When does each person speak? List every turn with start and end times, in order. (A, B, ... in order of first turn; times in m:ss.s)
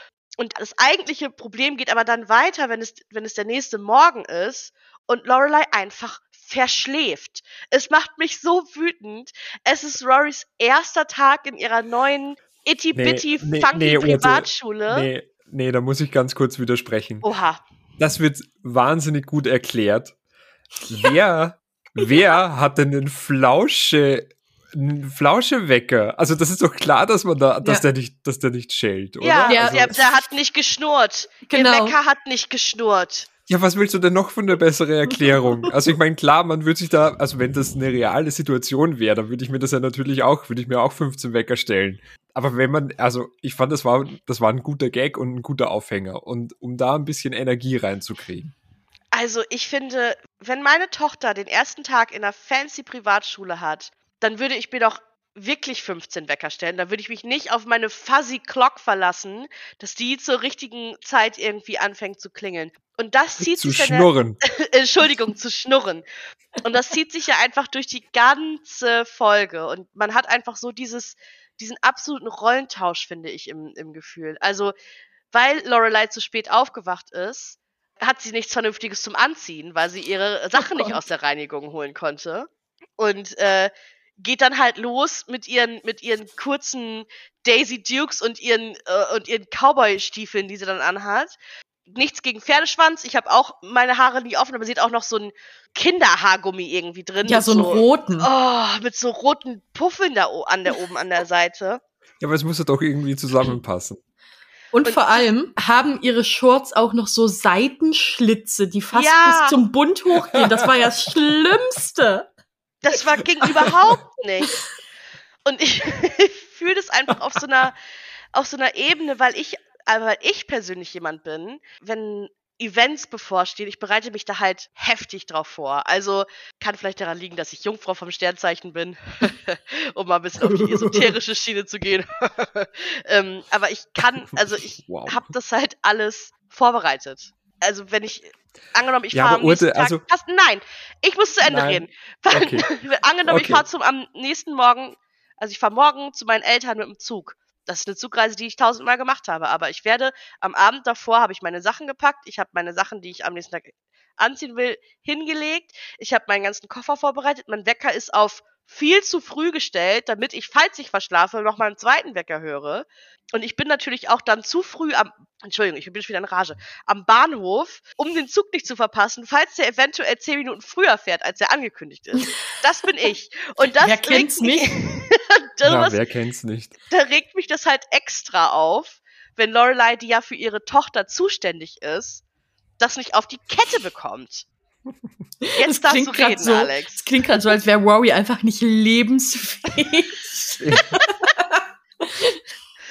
0:00.4-0:15.1 A
0:12.9-0:17.3 B
0:17.2-0:17.6 A
0:18.0-0:20.1 B
0:20.8-0:29.9 B
0:29.2-0:33.3 A
0:29.5-0:30.0 C
0:31.5-0:32.0 C
0:33.5-0:48.5 B
0:49.1-1:06.0 A
1:03.4-1:04.4 B
1:06.6-1:14.7 A
1:15.3-1:31.4 A
1:20.6-1:21.0 C
1:31.9-1:41.8 A
1:37.2-1:38.3 C
1:42.2-1:44.0 B
1:44.7-1:52.3 C
1:44.8-1:45.2 A
1:48.9-1:49.6 A
1:50.2-1:50.9 B
1:52.8-1:54.6 A
1:53.4-1:53.9 B
1:55.4-1:57.8 A
1:58.3-2:56.0 A
2:10.4-2:11.2 B
2:14.8-2:15.2 B
2:19.1-2:20.0 B
2:21.4-2:22.7 B
2:23.2-2:23.6 B
2:53.8-2:54.7 C
2:55.6-2:56.7 B
2:56.9-3:02.2 A
3:02.8-3:04.4 A
3:05.5-3:12.4 C
3:05.6-3:07.0 A
3:10.6-3:10.9 B